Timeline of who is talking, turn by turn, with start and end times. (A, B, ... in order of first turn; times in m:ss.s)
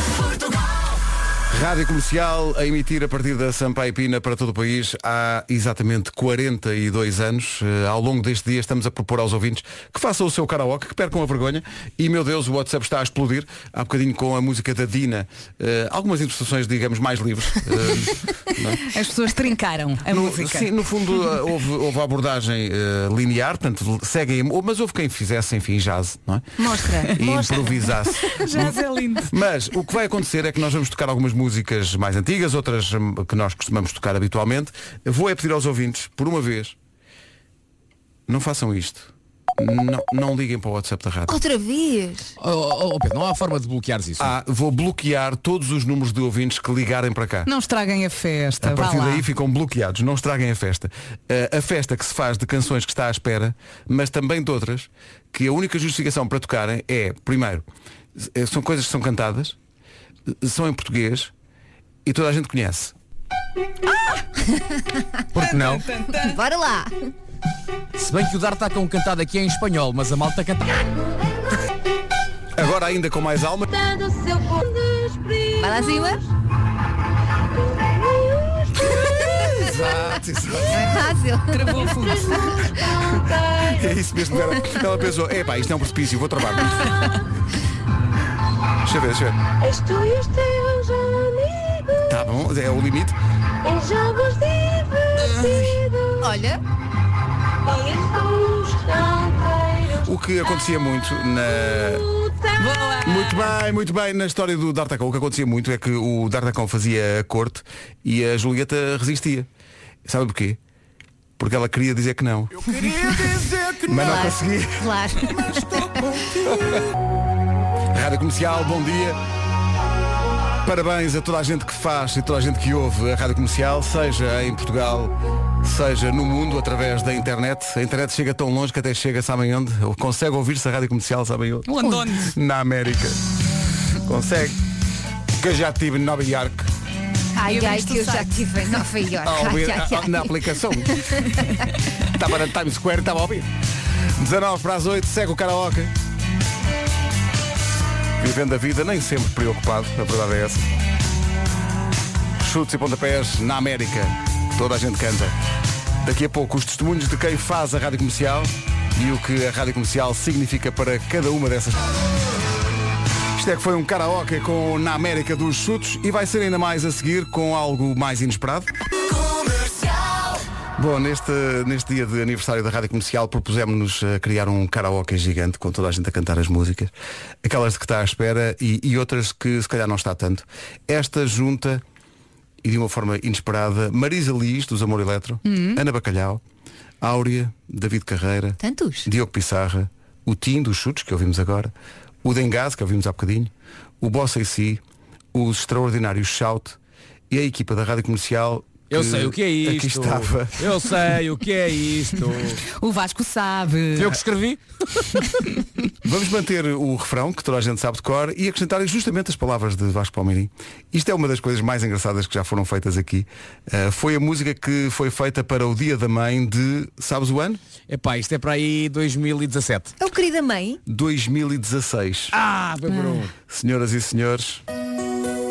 0:01.5-0:18.8 A
0:18.9-0:20.7 B
0:20.1-0:26.5 A
0:26.6-0:27.9 C
0:27.1-0:36.7 A
0:28.2-0:29.3 B
0:38.3-0:41.3 A
0:41.3-0:42.3 C
0:42.4-0:44.3 D
0:44.2-0:47.5 A
0:47.4-0:49.2 B
0:48.6-0:57.6 A
0:58.2-0:59.6 A
1:00.4-1:01.3 A
1:02.0-1:02.9 A
1:05.3-1:05.8 D
1:05.4-1:06.4 B
1:06.1-1:06.9 C
1:08.0-1:10.8 D
1:12.6-1:13.7 A
1:13.7-1:16.2 E
1:15.6-1:16.2 C
1:17.6-1:19.0 E
1:19.0-1:21.0 A
1:20.7-1:22.5 C
1:21.5-1:22.5 B
1:21.7-1:24.0 E
1:23.7-1:26.9 A
1:28.8-1:29.4 A
1:29.6-1:32.2 E
1:32.1-1:33.2 A
1:33.6-1:36.4 E
1:35.2-1:35.8 A
1:36.2-1:36.6 C
1:37.6-1:40.1 E
1:40.0-1:42.0 A
1:41.5-1:43.0 E
1:42.6-1:43.6 B
1:43.0-1:49.5 A
1:50.0-1:50.6 A
1:51.4-1:52.7 A
1:52.5-1:54.3 D
1:53.0-1:53.3 C
1:53.9-1:54.9 A
1:53.9-1:56.1 C
1:55.5-1:56.6 D
1:57.9-1:59.2 A
2:00.6-2:13.2 A
2:11.6-2:12.3 B
2:14.0-2:14.6 A
2:15.4-2:16.7 A
2:17.3-2:20.4 C
2:17.4-2:18.3 B
2:19.2-2:21.0 A
2:21.0-2:21.4 C
2:22.1-2:23.5 A
2:24.2-2:25.9 A
2:28.2-2:30.6 A
2:32.4-2:35.3 A
2:36.0-2:41.9 A
2:43.4-2:48.7 A
2:49.6-2:49.9 E
2:50.8-2:56.9 A
2:57.4-3:01.8 A
3:02.6-3:06.4 A
3:05.4-3:05.8 B
3:07.0-3:11.7 A
3:08.6-3:09.1 C
3:12.2-3:14.8 A
3:15.3-3:16.8 A
3:17.3-3:21.0 A
3:18.9-3:22.6 D
3:22.8-3:24.2 B
3:24.0-3:25.0 D
3:26.0-3:37.6 A
3:37.9-3:39.9 D
3:40.0-3:40.8 C
3:40.9-3:42.3 A
3:42.3-3:43.3 D
3:42.9-3:43.2 C
3:43.4-3:44.6 A